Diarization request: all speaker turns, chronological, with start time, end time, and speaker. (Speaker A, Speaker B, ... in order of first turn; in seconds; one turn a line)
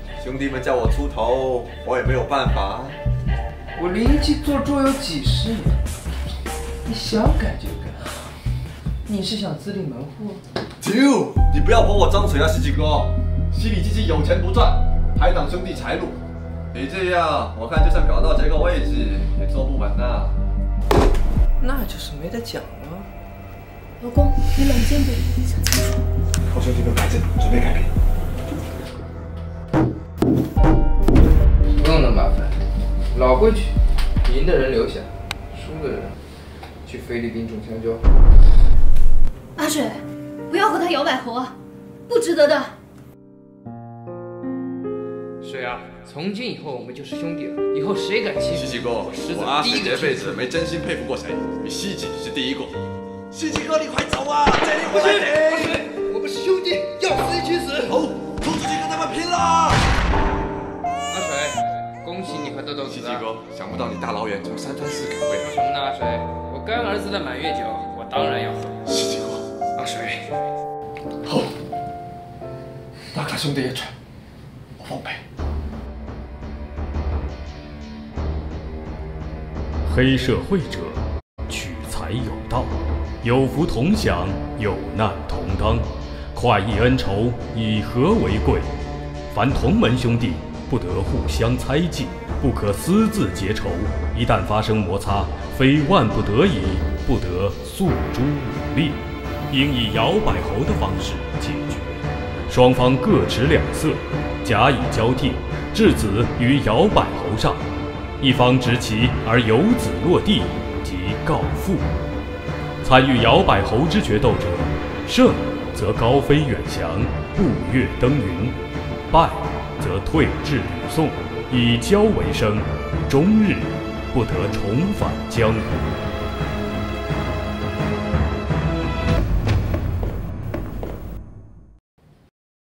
Speaker A: 0.2-3.0
Speaker B: 3.8-5.8
Speaker B: 6.8-8.3
Speaker B: 9.1-10.4
Speaker A: 10.8-16.2
Speaker A: 16.7-20.4
Speaker B: 21.6-23.1
Speaker C: 24.0-25.9
Speaker A: 26.5-27.9
Speaker B: 31.8-32.5
Speaker B: 33.1-36.1
Speaker B: 36.8-38.0
Speaker C: 39.5-41.5
Speaker C: 42.1-42.7
Speaker B: 45.4-50.5
Speaker A: 48.5-55.9
Speaker B: 54.9-57.9
Speaker A: 57.9-59.9
Speaker B: 61.1-63.2
Speaker A: 62.9-65.6
Speaker B: 65.3-68.8
Speaker A: 68.8-69.4
Speaker B: 69.8-70.3
Speaker A: 71.2-71.5
Speaker A: 73.1-73.4
Speaker B: 73.2-73.9
Speaker A: 74.8-75.2
Speaker D: 79.8-82.7
Speaker D: 83.2-88.7
Speaker D: 89.3-99.0
Speaker D: 99.5-107.6
Speaker D: 108.2-111.8
Speaker D: 112.8-118.5
Speaker D: 119.1-125.8